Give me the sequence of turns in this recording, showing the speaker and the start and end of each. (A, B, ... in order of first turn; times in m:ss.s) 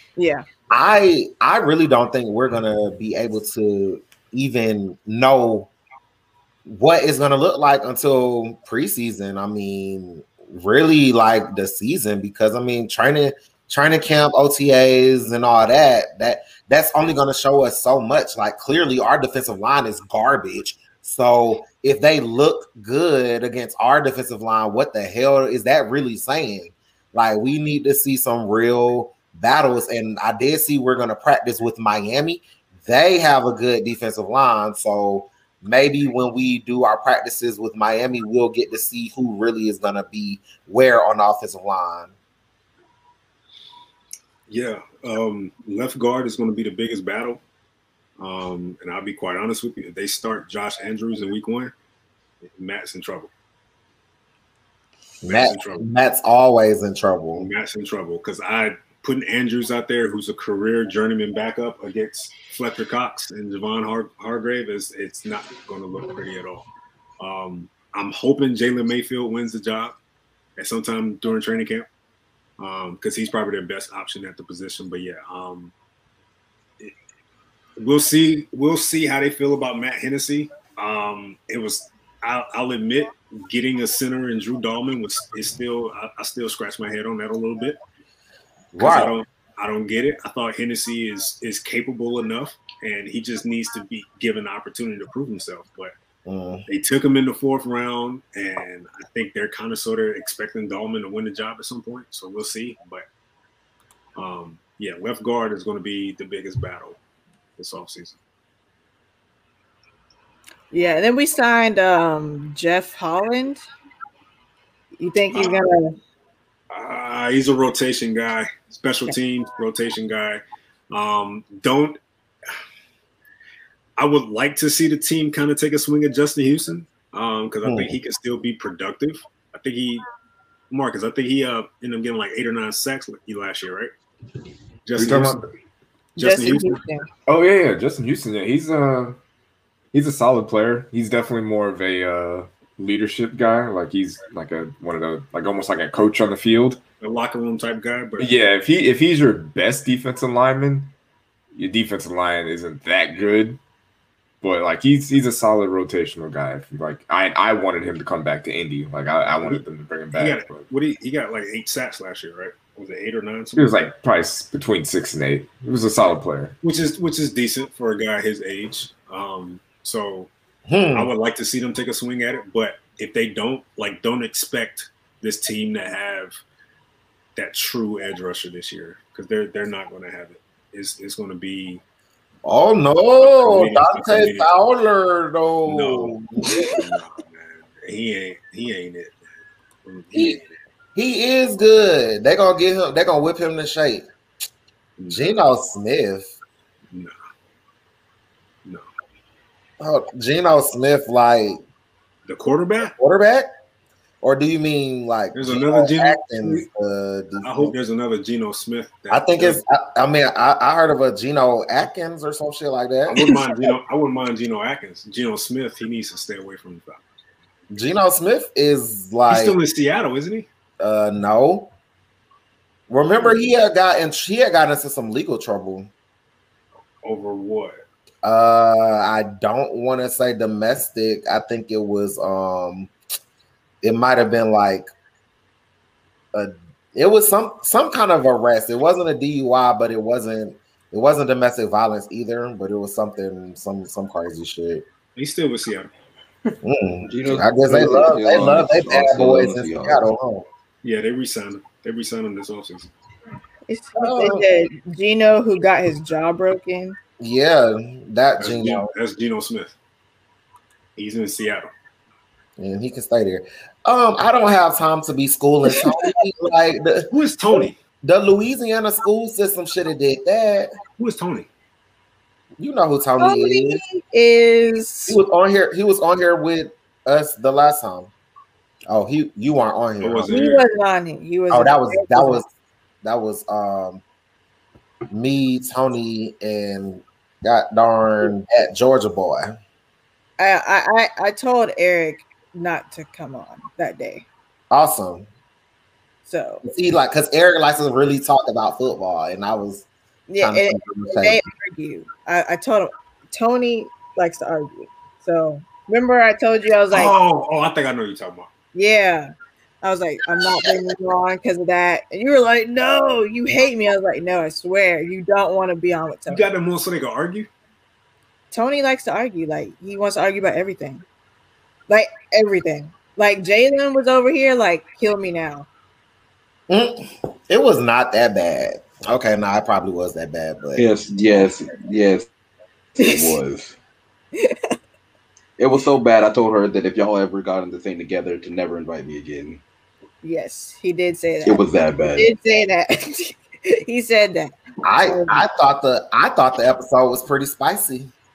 0:00.2-0:00.4 A
0:00.7-0:05.7 B
0:06.6-0:42.1 B
0:44.5-0:47.4 C
0:48.2-0:51.7 C
0:52.4-0:53.3 C
0:55.2-0:57.5 B
0:55.2-0:55.9 C
0:57.4-1:06.7 C
1:07.2-1:10.0 C
1:10.6-1:11.9 C
1:12.6-1:15.7 C
1:17.8-1:27.8 C
1:28.7-1:29.2 B
1:28.8-1:35.9 C
1:36.2-1:36.6 B
1:36.7-1:43.0 C
1:44.2-1:47.0 C
1:47.6-1:48.2 C
1:50.7-1:53.6 A
1:55.0-1:56.0 A
1:55.3-1:55.6 C
1:56.7-2:02.0 C
2:04.0-2:10.0 C
2:07.6-2:08.0 B
2:10.7-2:13.9 C
2:14.9-2:15.4 C
2:15.0-2:15.5 D
2:16.2-2:16.8 C
2:16.2-2:17.1 A
2:17.3-2:19.2 D
2:19.9-2:26.8 D
2:27.0-2:28.3 C
2:28.2-2:30.9 D
2:31.5-2:33.6 D
2:34.4-2:40.7 D
2:39.4-2:43.9 C
2:43.6-2:46.6 D
2:46.6-2:50.3 C
2:50.7-2:51.1 B
2:51.0-2:56.4 C
2:57.4-3:01.8 C
3:02.4-3:06.8 B
3:03.2-3:04.5 C
3:05.7-3:06.2 C
3:06.5-3:06.7 A
3:06.7-3:09.2 C
3:09.8-3:10.5 C
3:11.0-3:14.1 B
3:15.0-3:15.4 C
3:15.1-3:16.3 B
3:19.8-3:21.6 B
3:22.3-3:22.9 C
3:23.0-3:23.5 B
3:24.2-3:27.8 B
3:25.4-3:26.7 C
3:27.4-3:29.6 C
3:29.1-3:33.7 B
3:33.1-3:37.0 C
3:37.7-3:39.6 B
3:39.3-3:40.5 C
3:40.8-3:41.7 B
3:42.9-3:45.9 B
3:47.0-3:47.8 C
3:48.2-3:52.9 B
3:53.8-3:54.9 B
3:56.3-4:04.8 B
4:05.2-4:05.9 C
4:06.6-4:10.5 B
4:07.1-4:10.0 E
4:10.8-4:12.9 C
4:13.7-4:17.0 A
4:14.0-4:14.4 B
4:17.2-4:18.9 B
4:18.4-4:19.8 C
4:21.0-4:21.7 C
4:22.6-4:30.7 B
4:27.1-4:27.8 C
4:31.0-4:31.5 C
4:32.6-4:33.8 B
4:33.2-4:35.2 A
4:35.1-4:38.1 B
4:38.9-4:40.4 B
4:40.0-4:40.6 C
4:40.3-4:42.4 A
4:41.5-4:42.5 B
4:43.0-4:44.0 B
4:45.1-4:49.6 B
4:50.4-4:54.3 A
4:54.7-4:55.3 B
4:56.3-4:56.6 A
4:56.6-4:59.9 B
5:00.3-5:07.2 A
5:00.4-5:01.4 B
5:06.9-5:08.5 C
5:08.7-5:09.3 A
5:09.8-5:16.4 A
5:10.4-5:10.7 B
5:16.3-5:17.5 C
5:18.5-5:21.0 A
5:21.9-5:25.7 A
5:26.7-5:30.9 B
5:30.8-5:32.3 E
5:33.0-5:33.4 A
5:33.0-5:33.8 E
5:34.4-5:34.8 A
5:35.6-5:39.6 E
5:40.2-5:45.4 A
5:41.5-5:42.3 E
5:44.8-5:48.1 B